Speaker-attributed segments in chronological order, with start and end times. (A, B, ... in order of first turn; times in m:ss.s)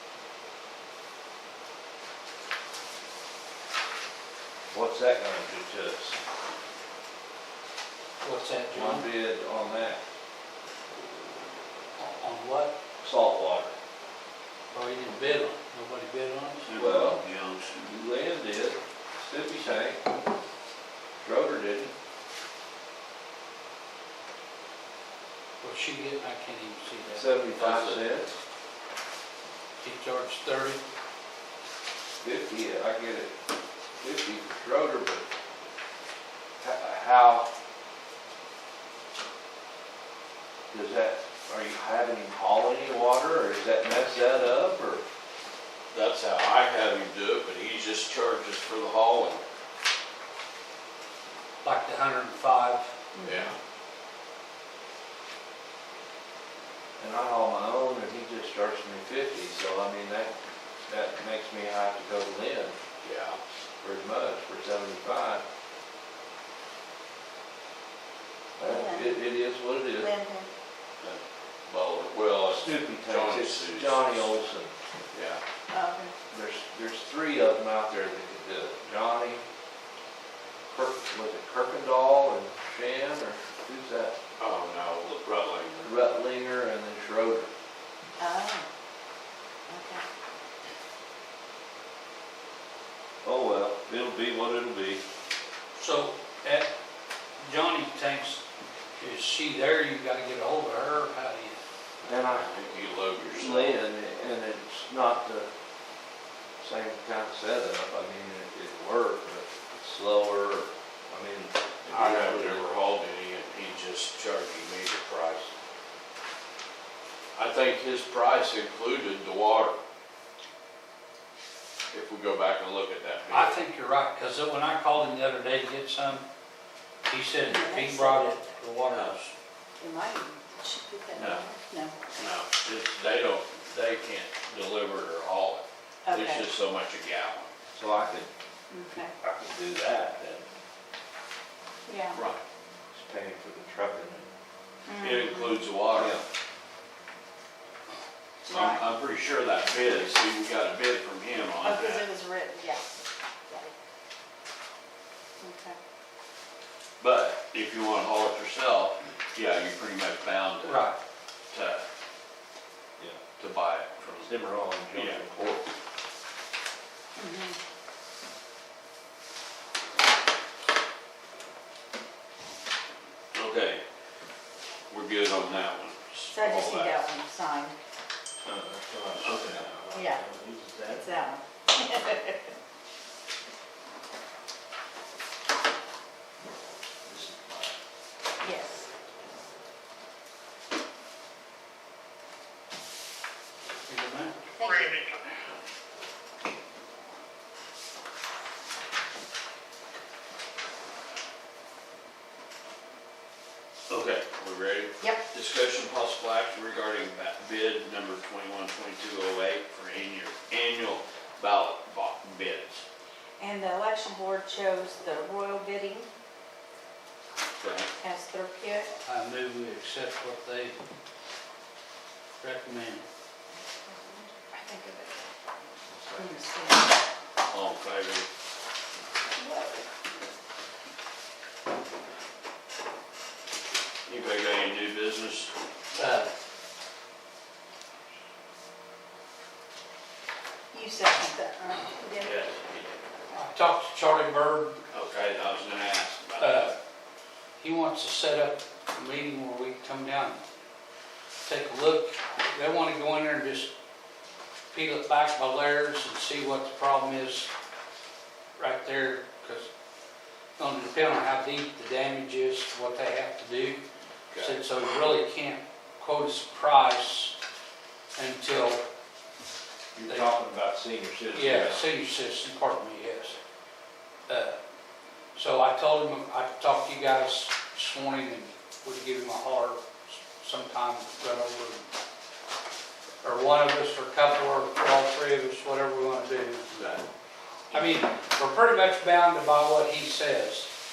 0:04.7-0:06.2 A
0:08.2-0:09.1 B
0:08.7-0:10.0 A
0:12.0-0:12.8 B
0:13.0-0:13.8 A
0:14.7-0:16.6 B
0:16.6-0:17.9 C
0:16.7-0:17.2 A
0:17.8-0:20.1 A
0:21.2-0:21.9 A
0:25.6-0:27.3 B
0:27.1-0:28.4 A
0:27.6-0:28.0 C
0:29.8-0:30.8 B
0:32.2-0:33.4 A
0:34.0-0:35.3 A
0:36.6-0:37.5 A
0:40.7-0:45.0 A
0:45.9-0:49.4 C
0:51.6-0:52.9 B
0:53.2-0:53.5 D
0:53.2-0:53.6 C
0:57.0-1:00.4 A
1:00.9-1:02.8 A
1:03.0-1:03.4 C
1:03.8-1:05.4 A
1:08.6-1:10.1 A
1:08.6-1:09.2 D
1:10.0-1:10.5 D
1:11.0-1:14.5 C
1:12.5-1:14.7 A
1:15.1-1:15.4 C
1:15.7-1:16.2 D
1:16.3-1:19.4 A
1:20.7-1:24.2 A
1:24.4-1:25.9 C
1:25.8-1:27.5 A
1:28.2-1:28.7 D
1:29.7-1:30.0 D
1:33.2-1:35.0 A
1:35.8-1:36.7 B
1:37.4-1:38.4 B
1:39.0-1:41.6 B
1:42.0-1:42.5 A
1:42.3-1:43.8 C
1:43.3-1:45.5 A
1:46.6-1:52.6 A
1:51.8-1:55.5 C
1:57.4-1:59.8 C
2:01.9-2:03.6 C
2:03.3-2:06.2 B
2:07.1-2:09.3 B
2:07.4-2:08.6 D
2:08.9-2:09.2 C
2:09.8-2:12.0 D
2:11.2-2:11.4 C
2:12.1-2:17.5 C
2:16.1-2:16.5 D
2:17.7-2:18.3 A
2:18.7-2:19.2 D
2:19.2-2:20.4 A
2:21.9-2:22.2 D
2:22.1-2:22.4 C
2:22.9-2:24.3 A
2:24.9-2:25.7 D
2:25.0-2:26.2 C
2:25.9-2:26.3 A
2:28.5-2:28.8 D
2:28.5-2:32.1 C
2:31.6-2:32.9 D
2:33.5-2:33.7 D
2:35.4-2:35.8 D
2:37.0-2:40.9 C
2:40.6-2:41.0 B
2:41.5-2:41.8 C
2:43.4-2:44.3 C
2:44.2-2:45.6 A
2:44.9-2:45.3 C
2:47.2-2:47.6 D
2:53.3-2:53.8 C
2:54.9-2:57.0 C
2:56.3-2:57.8 D
2:58.4-3:01.0 A
2:59.2-2:59.8 C
2:59.9-3:00.2 D
3:00.8-3:02.5 D
3:07.1-3:07.7 A
3:08.4-3:08.9 D
3:13.9-3:14.4 B
3:14.6-3:15.1 D
3:23.9-3:32.8 C
3:33.4-3:36.1 D
3:37.6-3:37.9 C
3:38.0-3:38.9 D
3:39.0-3:40.8 B
3:42.4-3:43.0 B
3:43.6-3:45.2 D
3:45.9-3:46.4 A
3:46.2-3:47.0 D
3:47.4-3:48.3 C
3:49.4-3:49.9 D
3:54.1-3:55.5 C
3:56.0-3:56.3 B
4:00.7-4:02.4 D
4:02.2-4:03.0 C
4:03.3-4:04.8 B
4:04.9-4:06.7 C
4:06.4-4:06.8 B
4:07.6-4:10.4 B
4:11.4-4:13.7 B
4:14.7-4:17.5 B
4:18.6-4:19.7 B
4:20.6-4:23.8 B
4:24.3-4:24.6 C
4:24.4-4:27.4 B
4:28.2-4:28.8 B
4:30.0-4:31.8 A
4:30.1-4:30.4 B
4:31.3-4:33.4 B
4:34.3-4:34.6 B
4:35.4-4:41.8 B
4:43.2-4:46.7 B
4:46.7-4:47.0 C
4:47.7-4:50.7 B